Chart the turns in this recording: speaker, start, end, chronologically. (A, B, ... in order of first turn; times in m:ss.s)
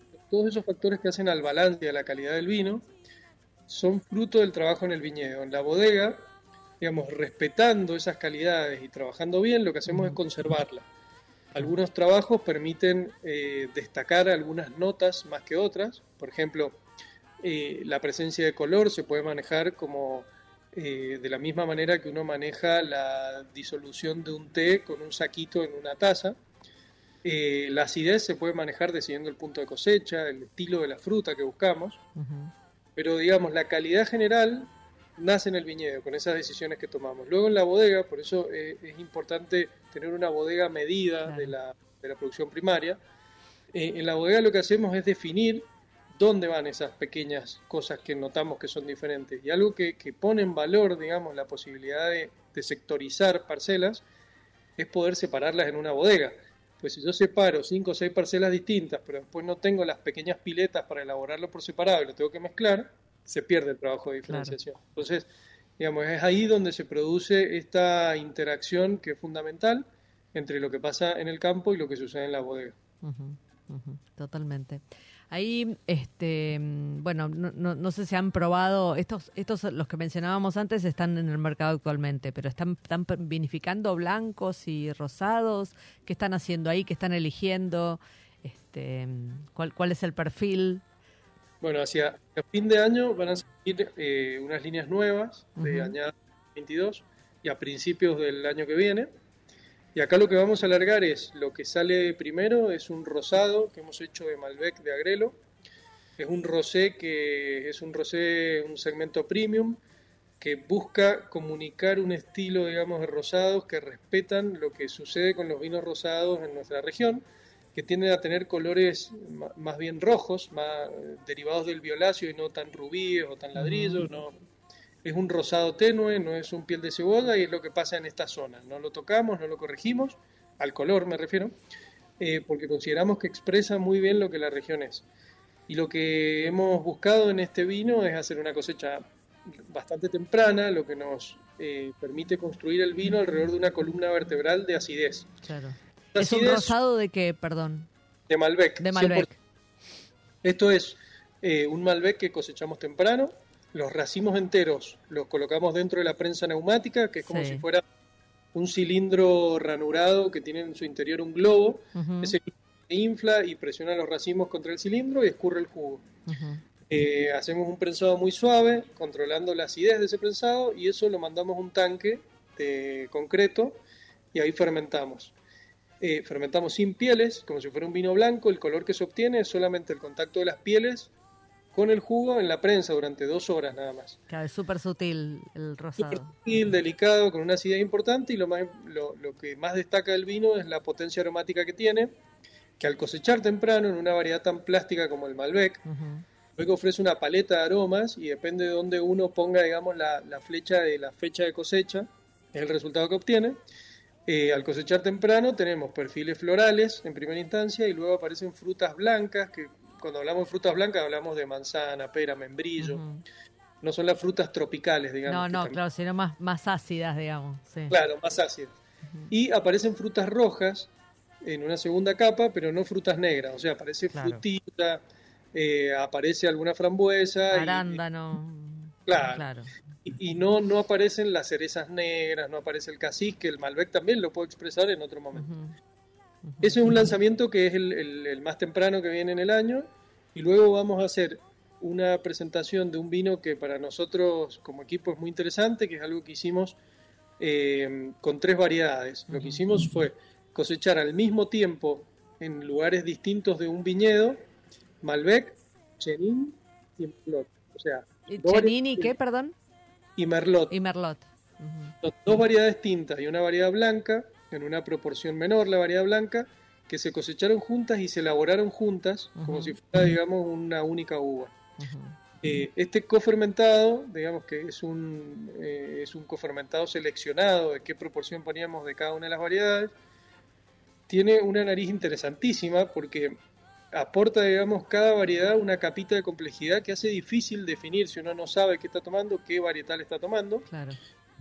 0:00.3-0:02.9 A
0:03.7-0:06.3 A
0:06.8-0:10.8 A
0:09.9-0:10.2 B
0:11.5-0:16.8 A
0:17.4-0:26.4 A
0:27.2-0:32.0 A
0:32.2-0:32.5 B
0:33.0-0:43.0 A
0:41.2-0:41.5 B
0:43.7-0:54.0 A
0:54.8-1:05.3 A
1:04.3-1:04.6 B
1:05.8-1:12.8 A
1:13.0-1:30.8 B
1:31.6-1:39.1 A
1:35.6-1:36.0 B
1:39.9-1:45.4 A
1:46.2-1:49.8 A
1:50.4-2:04.3 A
2:03.6-2:04.0 B
2:05.0-2:11.5 A
2:12.2-2:15.0 A
2:15.7-2:25.3 A
2:25.4-2:27.9 B
2:26.1-2:26.8 A
2:28.3-2:29.3 A
2:28.8-2:29.3 B
2:30.4-2:37.8 A
2:37.2-2:37.6 B
2:38.5-2:46.0 A
2:42.0-2:42.4 B
2:46.3-2:46.6 B
2:46.9-2:53.8 A
2:54.3-2:55.3 A
2:56.0-3:01.1 A
3:01.7-3:04.2 A
3:04.3-3:06.3 B
3:06.0-3:12.1 A
3:12.8-3:15.8 A
3:15.9-3:16.2 B
3:16.6-3:23.6 A
3:24.3-3:33.0 A
3:32.8-3:33.2 B
3:33.8-3:35.8 A
3:35.3-3:38.0 B
3:37.9-3:38.7 A
3:39.3-3:40.9 A
3:41.4-3:45.0 A
3:44.1-3:44.4 B
3:45.5-3:48.0 A
3:47.5-3:49.7 B
3:49.1-3:49.4 A
3:50.0-3:55.5 A
3:55.3-3:55.7 B
3:56.4-3:56.7 B
3:56.6-4:06.8 A
4:07.4-4:14.4 A
4:09.3-4:09.6 B
4:15.0-4:19.1 A
4:18.3-4:19.5 B
4:20.2-4:20.7 A
4:20.7-4:21.9 B
4:22.0-4:31.5 A
4:29.4-4:29.8 B
4:31.8-4:32.2 B
4:32.4-4:39.9 A
4:41.1-4:43.4 A
4:43.9-4:50.7 A
4:50.7-4:51.0 B